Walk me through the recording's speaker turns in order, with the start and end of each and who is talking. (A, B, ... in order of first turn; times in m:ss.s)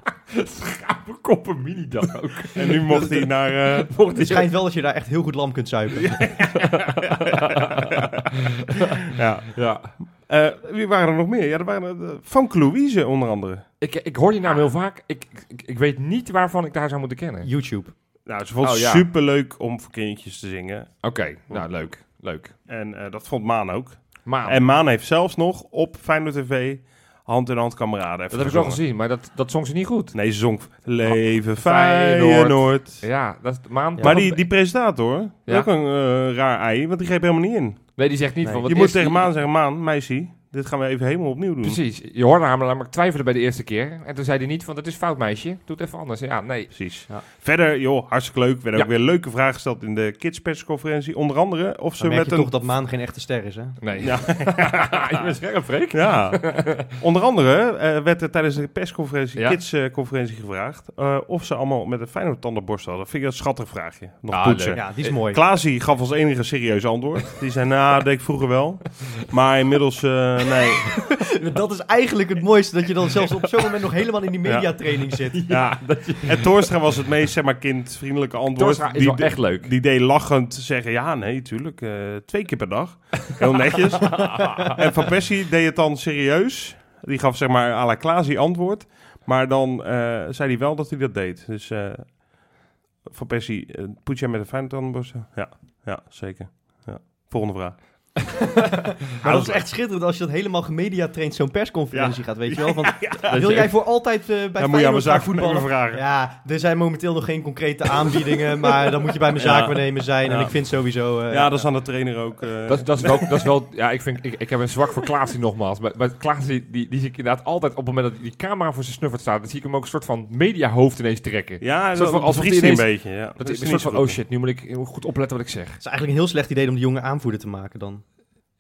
0:00.3-0:03.2 A
0:02.6-0:03.9 B
0:03.8-0:04.5 A
0:04.2-0:06.4 C
0:06.1-0:06.7 B
0:06.6-0:08.9 A
0:09.1-0:13.7 B
0:09.5-0:09.9 A
0:13.8-0:17.5 A
0:17.4-0:17.9 C
0:18.3-0:21.6 B
0:18.6-0:19.1 A
0:21.0-0:22.5 A
0:22.7-0:28.8 B
0:24.2-0:24.6 A
0:28.3-0:30.2 A
0:30.1-0:33.0 B
0:31.0-0:34.6 A
0:34.0-0:34.2 C
0:34.0-0:37.9 B
0:38.0-0:39.3 A
0:38.4-0:38.7 C
0:38.6-0:41.8 B
0:41.6-0:46.7 A
0:46.7-0:52.5 B
0:52.0-0:53.8 C
0:53.8-0:57.0 A
0:54.0-0:55.1 B
0:55.9-1:11.0 B
1:04.3-1:05.1 A
1:04.8-1:05.4 C
1:11.1-1:15.6 C
1:14.4-1:14.7 B
1:15.3-1:16.7 A
1:15.5-1:32.2 B
1:18.6-1:19.7 A
1:24.0-1:24.8 A
1:33.0-1:38.2 B
1:38.6-1:51.7 C
1:39.2-1:39.6 B
1:41.9-1:43.9 B
1:43.3-1:43.6 A
1:44.6-1:46.0 B
1:49.3-1:50.6 B
1:51.3-1:53.5 B
1:52.7-2:05.8 A
2:01.6-2:04.2 B
2:05.8-2:08.0 C